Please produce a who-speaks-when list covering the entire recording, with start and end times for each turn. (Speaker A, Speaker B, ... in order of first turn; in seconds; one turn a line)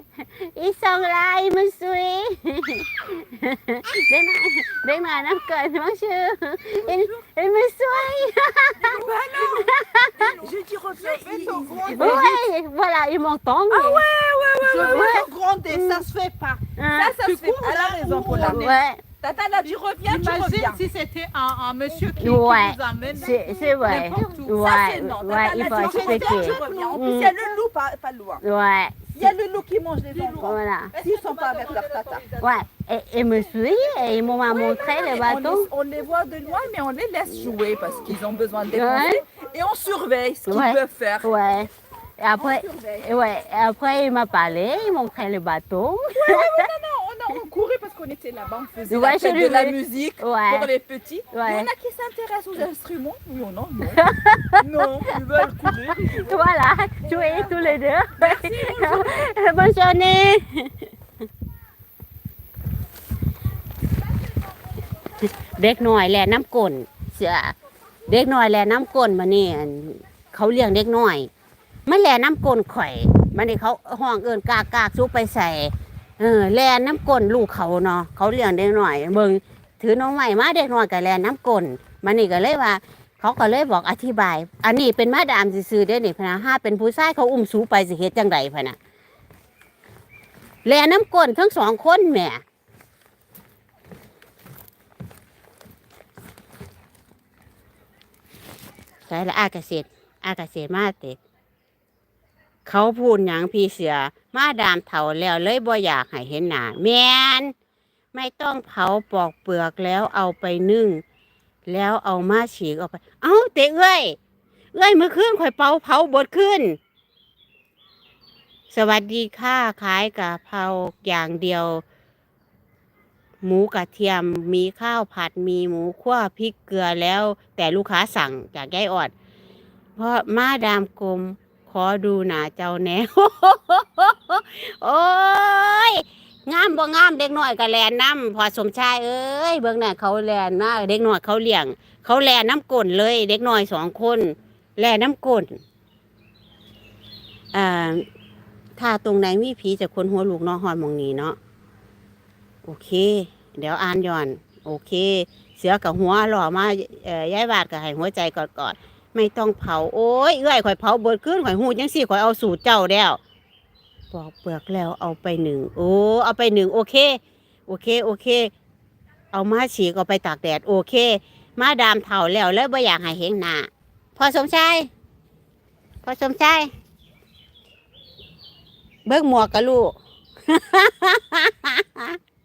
Speaker A: 0.4-9.0
Speaker B: 8.8-12.3
Speaker A: 9.5-10.3
Speaker C: 10.2-12.4
Speaker A: 11.9-14.0
Speaker B: 13.7-18.7
Speaker C: 14.6-15.2
Speaker A: 14.8-16.0
Speaker A: 16.8-17.1
Speaker C: 17.2-18.7
Speaker A: 18.4-19.0
Speaker B: 19.2-20.9
Speaker C: 20.1-24.6
Speaker A: 22.2-27.3
Speaker B: 23.1-23.4
Speaker B: 24.5-28.4
Speaker C: 25.5-27.1
Speaker A: 28.4-29.1
Speaker B: 29.1-32.4
Speaker C: 30.1-32.5
Speaker A: 30.4-30.9
Speaker A: 32.4-35.7
Speaker B: 34.5-41.3
Speaker A: 38.7-39.2
Speaker A: 40.5-46.7
Speaker B: 42.4-43.1
Speaker B: 46.1-54.0
Speaker A: 48.9-50.7
Speaker A: 51.3-51.7
Speaker A: 54.0-54.6
Speaker B: 54.6-56.3
Speaker A: 56.1-60.7
Speaker B: 57.2-57.5
Speaker B: 58.2-59.3
Speaker A: 65.4-67.5
Speaker A: 68.1-71.3
Speaker A: 71.9-88.8
Speaker A: 90.7-92.4
Speaker A: 99.1-101.2
Speaker A: 102.7-107.5
Speaker A: 108.1-111.0
Speaker A: 111.7-114.2
Speaker A: 114.7-116.8
Speaker A: 118.7-121.8
Speaker A: 123.4-129.1
Speaker A: 130.0-145.6
Speaker A: 147.5-148.1
Speaker A: 148.8-151.4
Speaker A: 152.7-163.2
Speaker A: 164.1-168.5
Speaker A: 169.3-174.9
Speaker A: 176.0-176.7
Speaker A: 179.1-180.0
Speaker A: 180.5-182.2